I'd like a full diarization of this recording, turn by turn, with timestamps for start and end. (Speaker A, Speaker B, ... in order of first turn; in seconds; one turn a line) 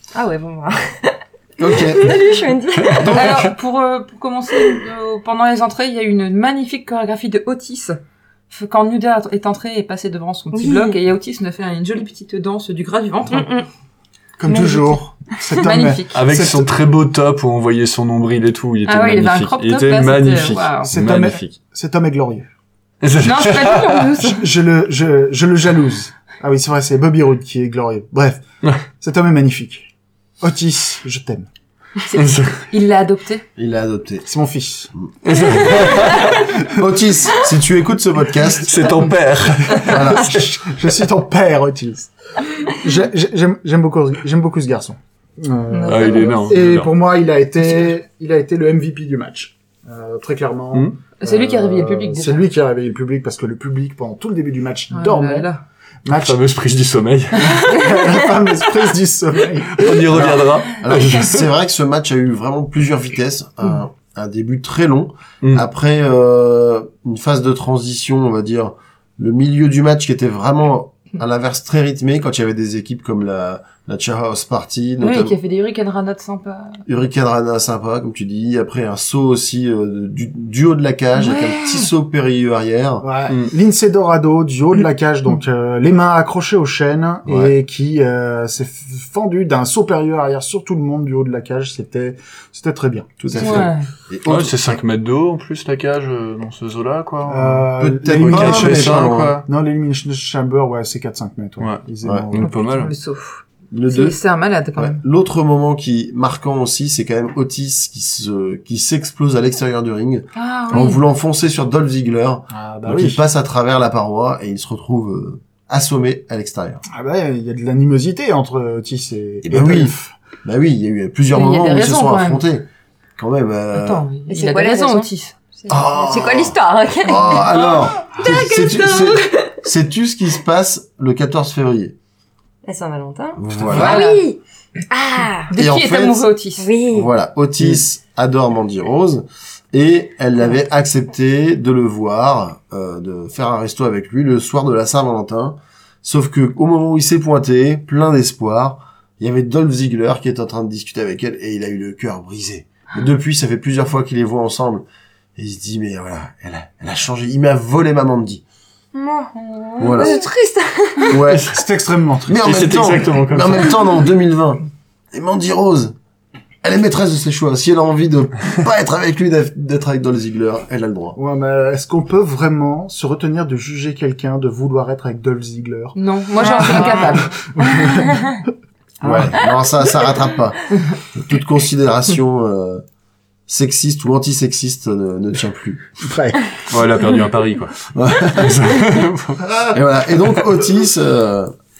Speaker A: 0.1-3.4
Speaker B: 1.6-2.2
Speaker C: 2.9-3.3
Speaker B: 2.9-3.4
Speaker D: 3.0-8.0
Speaker D: 8.5-13.5
Speaker A: 10.5-11.0
Speaker A: 13.3-13.7
Speaker E: 14.4-16.7
Speaker A: 14.5-15.0
Speaker D: 15.6-16.2
Speaker C: 16.1-21.6
Speaker D: 18.9-20.9
Speaker E: 20.9-22.5
Speaker C: 23.0-24.1
Speaker D: 23.2-24.4
Speaker E: 24.2-28.4
Speaker E: 29.0-31.5
Speaker D: 32.1-33.5
Speaker C: 32.2-32.6
Speaker B: 33.6-34.3
Speaker E: 34.2-34.9
Speaker C: 35.2-36.5
Speaker B: 36.2-39.0
Speaker C: 38.6-40.0
Speaker E: 39.7-55.5
Speaker B: 39.8-40.5
Speaker D: 45.7-46.5
Speaker C: 45.9-46.9
Speaker D: 51.2-52.5
Speaker D: 54.9-55.6
Speaker E: 56.0-56.4
Speaker C: 56.1-57.7
Speaker E: 57.4-60.4
Speaker C: 59.7-61.5
Speaker B: 60.0-75.4
Speaker D: 75.0-76.8
Speaker B: 76.8-83.0
Speaker D: 81.2-81.9
Speaker E: 83.0-93.6
Speaker B: 87.2-87.5
Speaker B: 93.2-94.8
Speaker D: 93.3-93.9
Speaker C: 94.3-97.7
Speaker E: 97.2-102.6
Speaker B: 97.8-99.4
Speaker C: 98.3-99.5
Speaker C: 102.3-102.9
Speaker D: 102.4-105.0
Speaker B: 103.7-104.2
Speaker B: 104.8-116.8
Speaker D: 110.3-111.0
Speaker E: 112.5-113.2
Speaker E: 116.9-120.1
Speaker B: 119.5-122.7
Speaker D: 121.3-122.4
Speaker B: 123.2-124.0
Speaker D: 123.7-125.3
Speaker A: 124.3-129.6
Speaker B: 125.7-131.9
Speaker A: 132.7-135.5
Speaker B: 133.4-134.0
Speaker D: 133.8-134.2
Speaker D: 135.5-136.7
Speaker B: 135.5-136.3
Speaker A: 136.6-137.1
Speaker B: 136.9-154.8
Speaker B: 155.3-158.4
Speaker A: 158.9-161.2
Speaker D: 159.6-161.2
Speaker B: 159.8-160.2
Speaker B: 161.1-161.6
Speaker C: 161.2-161.6
Speaker E: 161.5-162.6
Speaker B: 162.3-165.9
Speaker C: 162.3-164.0
Speaker B: 166.6-171.2
Speaker E: 171.2-178.5
Speaker D: 176.0-177.4
Speaker B: 179.0-182.8
Speaker B: 183.5-185.9
Speaker E: 186.0-186.6
Speaker C: 186.7-189.6
Speaker B: 187.9-188.7
Speaker B: 189.7-191.5